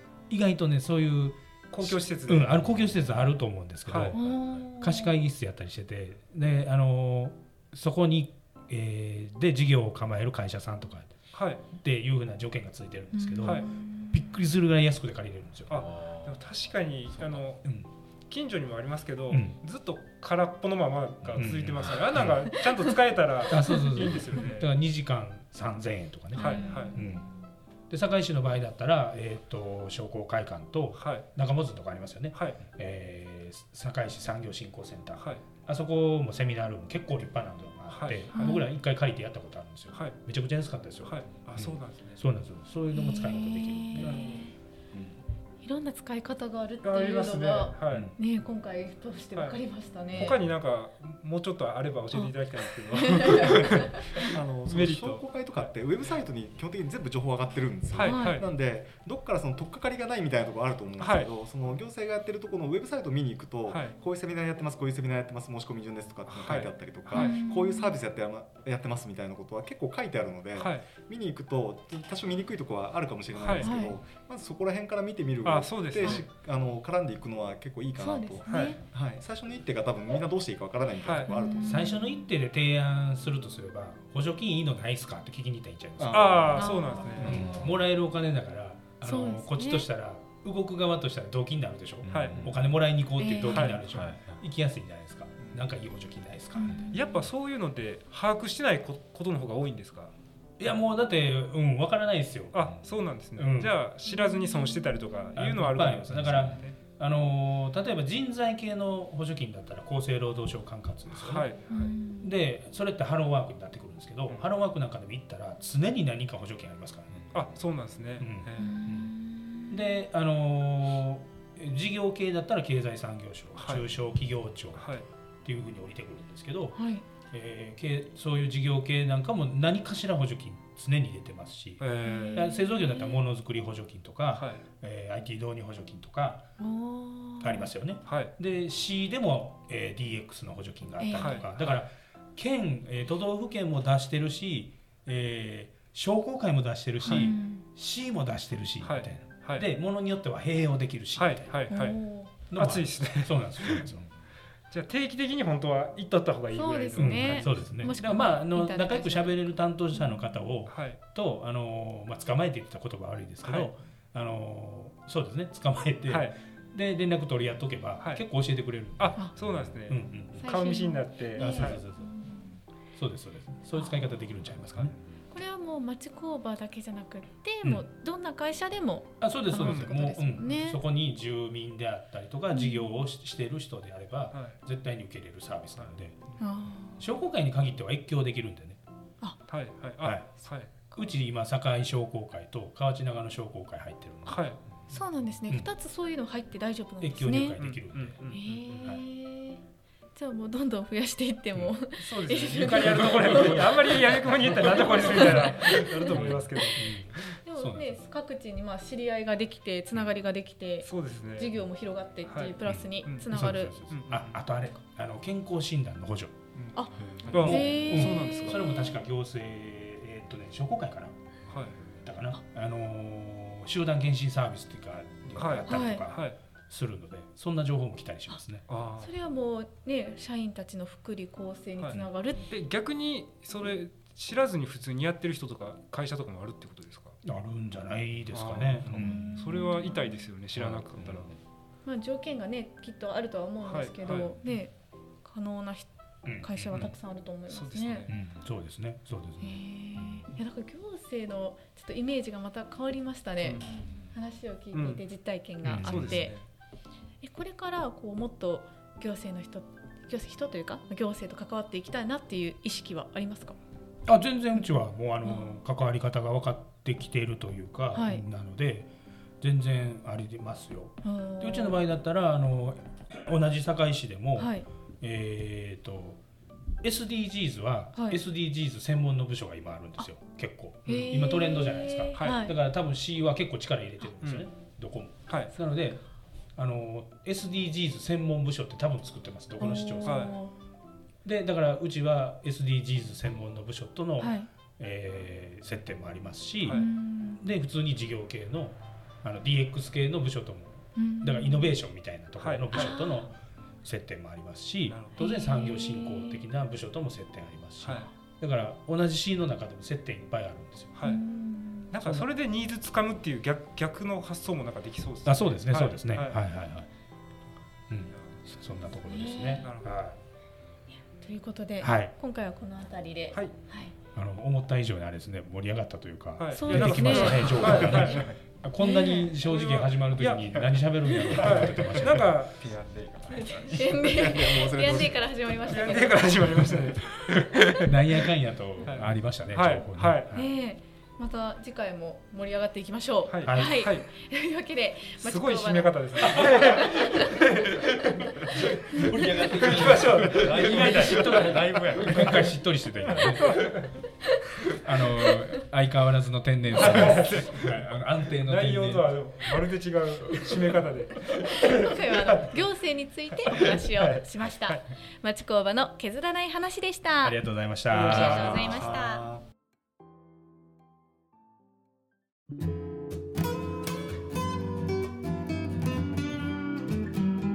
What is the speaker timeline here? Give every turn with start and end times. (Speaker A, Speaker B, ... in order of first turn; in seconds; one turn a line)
Speaker A: 0.3-11.1
Speaker B: 1.7-2.6
Speaker B: 3.9-4.2
Speaker C: 4.1-5.2
Speaker B: 11.3-11.6
Speaker A: 11.7-15.8
Speaker C: 13.1-14.4
Speaker B: 15.7-24.7
Speaker D: 15.8-16.3
Speaker A: 19.3-19.6
Speaker A: 21.4-22.5
Speaker C: 22.4-22.9
Speaker A: 23.5-27.2
Speaker C: 23.6-24.5
Speaker C: 26.3-27.5
Speaker B: 26.4-27.0
Speaker A: 27.9-45.2
Speaker B: 30.9-31.3
Speaker B: 32.3-32.6
Speaker B: 35.2-35.4
Speaker B: 37.9-38.6
Speaker C: 38.4-38.6
Speaker B: 39.9-40.2
Speaker B: 41.0-42.2
Speaker C: 42.9-44.5
Speaker B: 43.9-44.4
Speaker C: 45.6-50.4
Speaker B: 46.8-48.1
Speaker A: 47.9-48.1
Speaker B: 49.3-49.6
Speaker B: 50.1-55.7
Speaker C: 52.9-54.3
Speaker E: 54.1-81.8
Speaker B: 57.9-58.5
Speaker C: 58.0-58.4
Speaker B: 61.0-61.3
Speaker B: 63.7-64.0
Speaker B: 66.3-67.4
Speaker C: 67.1-68.0
Speaker B: 70.5-70.8
Speaker B: 73.3-73.7
Speaker C: 73.5-74.0
Speaker B: 75.4-76.3
Speaker C: 78.0-78.8
Speaker B: 78.5-78.7
Speaker B: 81.0-81.3
Speaker C: 81.2-82.3
Speaker A: 81.6-96.9
Speaker E: 86.0-87.4
Speaker B: 86.1-87.3
Speaker C: 86.5-87.2
Speaker D: 87.2-87.7
Speaker C: 89.0-89.8
Speaker D: 92.0-92.6
Speaker B: 92.1-92.4
Speaker C: 93.2-93.8
Speaker B: 93.5-93.8
Speaker D: 93.8-94.4
Speaker C: 96.5-97.2
Speaker B: 96.9-100.1
Speaker A: 100.6-102.7
Speaker B: 102.5-106.8
Speaker A: 103.3-103.7
Speaker C: 104.0-105.2
Speaker A: 105.3-111.5
Speaker B: 111.1-111.9
Speaker C: 111.7-112.3
Speaker A: 112.2-117.5
Speaker B: 117.3-118.8
Speaker A: 118.2-119.1
Speaker C: 118.6-120.0
Speaker A: 119.7-126.8
Speaker B: 123.6-123.8
Speaker B: 124.8-125.0
Speaker C: 126.7-127.0
Speaker A: 127.3-136.5
Speaker B: 131.8-132.5
Speaker C: 132.0-133.2
Speaker B: 134.3-134.6
Speaker C: 136.6-137.7
Speaker A: 137.4-151.6
Speaker B: 138.1-138.3
Speaker C: 141.0-141.4
Speaker B: 141.1-141.6
Speaker C: 147.0-147.7
Speaker B: 148.8-149.7
Speaker B: 151.2-153.9
Speaker C: 151.7-152.3
Speaker A: 152.5-154.1
Speaker B: 154.7-157.7
Speaker C: 156.5-160.2
Speaker A: 157.0-170.6
Speaker B: 160.7-161.0
Speaker B: 163.4-163.7
Speaker B: 166.1-166.3
Speaker B: 168.0-168.2
Speaker B: 169.0-171.8
Speaker C: 170.3-172.6
Speaker A: 171.4-172.1
Speaker A: 172.9-174.9
Speaker C: 173.7-174.2
Speaker C: 175.3-180.8
Speaker A: 179.2-186.2
Speaker B: 179.6-179.9
Speaker C: 182.5-183.0
Speaker B: 184.3-184.6
Speaker C: 186.4-187.0
Speaker A: 187.0-188.8
Speaker B: 189.5-190.7
Speaker A: 190.0-195.0
Speaker B: 194.2-194.6
Speaker C: 194.9-197.6
Speaker A: 197.0-198.2
Speaker B: 197.6-198.8
Speaker C: 198.3-199.6
Speaker C: 200.1-206.1
Speaker B: 202.0-206.9
Speaker A: 203.1-208.0
Speaker C: 207.3-213.7
Speaker B: 210.8-211.6
Speaker B: 212.3-213.3
Speaker A: 212.6-216.4
Speaker B: 213.9-214.4
Speaker C: 216.7-218.4
Speaker A: 217.0-221.2
Speaker B: 217.3-218.6
Speaker B: 221.5-221.8
Speaker A: 221.8-228.6
Speaker B: 225.3-226.4
Speaker C: 225.7-226.1
Speaker B: 228.7-229.1
Speaker C: 229.0-232.5
Speaker B: 231.8-237.2
Speaker A: 237.2-239.3
Speaker B: 238.3-241.3
Speaker C: 239.0-240.3
Speaker A: 240.5-241.4
Speaker C: 241.8-244.7
Speaker B: 243.7-244.6
Speaker C: 245.2-248.1
Speaker A: 246.2-246.9
Speaker B: 246.7-246.9
Speaker B: 247.5-248.2
Speaker A: 248.1-249.6
Speaker C: 249.4-253.6
Speaker B: 253.4-253.8
Speaker C: 254.1-256.4
Speaker B: 254.7-255.0
Speaker A: 255.6-256.3
Speaker B: 255.8-256.4
Speaker C: 257.2-263.6
Speaker A: 264.1-268.9
Speaker C: 267.9-268.2
Speaker A: 269.4-276.2
Speaker C: 271.0-271.8
Speaker C: 274.4-274.7
Speaker A: 276.8-286.0
Speaker C: 277.9-278.2
Speaker B: 280.9-281.2
Speaker C: 280.9-282.6
Speaker B: 282.2-282.4
Speaker B: 284.2-284.5
Speaker A: 286.5-290.3
Speaker C: 289.6-290.5
Speaker B: 290.0-290.4
Speaker A: 291.2-296.8
Speaker C: 294.2-294.5
Speaker C: 296.7-297.4
Speaker A: 297.4-310.9
Speaker C: 300.9-301.8
Speaker B: 302.4-302.9
Speaker C: 302.7-303.3
Speaker B: 304.9-305.2
Speaker C: 305.2-306.4
Speaker B: 310.9-311.2
Speaker C: 311.0-311.9
Speaker B: 311.9-316.4
Speaker A: 312.0-312.3
Speaker A: 315.2-316.9
Speaker A: 317.9-320.2
Speaker C: 319.0-319.6
Speaker B: 319.6-319.9
Speaker C: 321.1-323.9
Speaker A: 321.8-322.1
Speaker A: 324.1-332.4
Speaker B: 326.4-328.3
Speaker C: 326.5-328.1
Speaker C: 328.8-329.4
Speaker B: 329.4-332.5
Speaker C: 331.1-331.4
Speaker D: 332.2-334.5
Speaker C: 333.3-336.8
Speaker E: 334.0-335.2
Speaker B: 335.7-337.9
Speaker A: 337.7-340.5
Speaker B: 338.8-340.3
Speaker C: 340.3-347.3
Speaker B: 343.3-344.1
Speaker A: 343.4-343.8
Speaker B: 345.2-351.6
Speaker A: 346.4-353.6
Speaker D: 350.3-352.4
Speaker B: 353.2-353.9
Speaker A: 354.8-359.1
Speaker B: 356.7-357.7
Speaker B: 358.4-362.5
Speaker C: 361.5-367.4
Speaker B: 363.5-364.8
Speaker A: 367.2-368.9
Speaker B: 367.9-368.6
Speaker E: 368.0-369.4
Speaker C: 368.0-369.2